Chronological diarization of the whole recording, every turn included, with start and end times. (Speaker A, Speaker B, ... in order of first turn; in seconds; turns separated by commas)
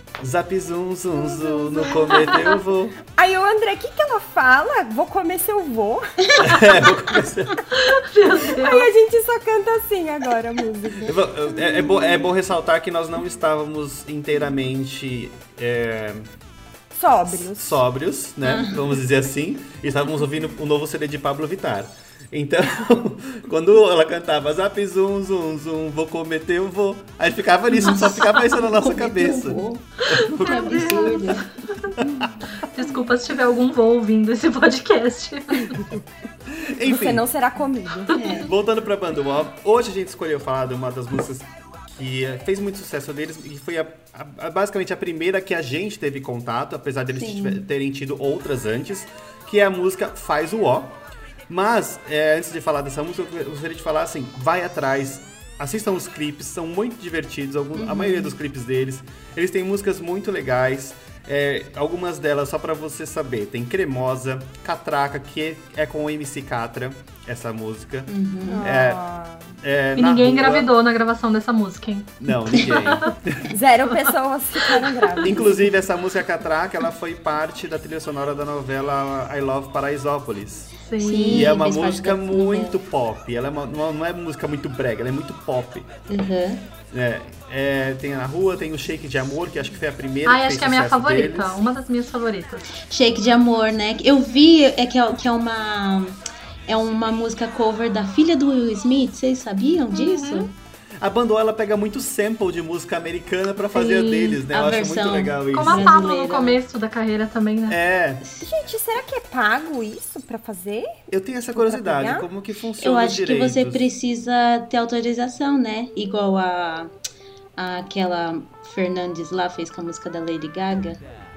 Speaker A: 0.2-3.0, Speaker B: 1.2-2.5, Speaker B: 3.1-6.8, Speaker A: 6.4-7.7, Speaker C: 7.7-8.9, Speaker B: 8.4-11.1, Speaker A: 11.0-16.3, Speaker B: 16.9-17.8, Speaker A: 17.3-31.1, Speaker D: 18.4-19.0, Speaker D: 27.7-31.5, Speaker C: 30.1-31.9, Speaker A: 32.0-32.3, Speaker C: 32.6-35.8, Speaker A: 36.5-37.2, Speaker B: 36.9-38.2, Speaker D: 38.1-38.5, Speaker A: 38.4-69.0, Speaker D: 47.1-47.7, Speaker D: 57.8-58.4, Speaker D: 68.1-68.7, Speaker B: 68.5-69.6, Speaker A: 69.6-70.7, Speaker C: 70.0-73.1, Speaker A: 72.2-73.5, Speaker B: 73.5-75.6, Speaker A: 75.2-80.7, Speaker C: 80.8-81.6, Speaker D: 81.0-82.8, Speaker A: 81.3-85.9, Speaker D: 86.1-86.7, Speaker A: 86.9-91.6, Speaker C: 90.3-92.7, Speaker D: 92.8-100.5, Speaker C: 99.9-100.5, Speaker A: 101.0-105.9, Speaker C: 103.7-104.4, Speaker D: 104.4-106.6, Speaker C: 105.5-107.8, Speaker A: 107.7-108.2, Speaker D: 108.2-108.5, Speaker B: 108.4-110.9, Speaker A: 111.1-113.8, Speaker B: 111.5-112.3, Speaker D: 112.8-116.9, Speaker D: 117.6-121.0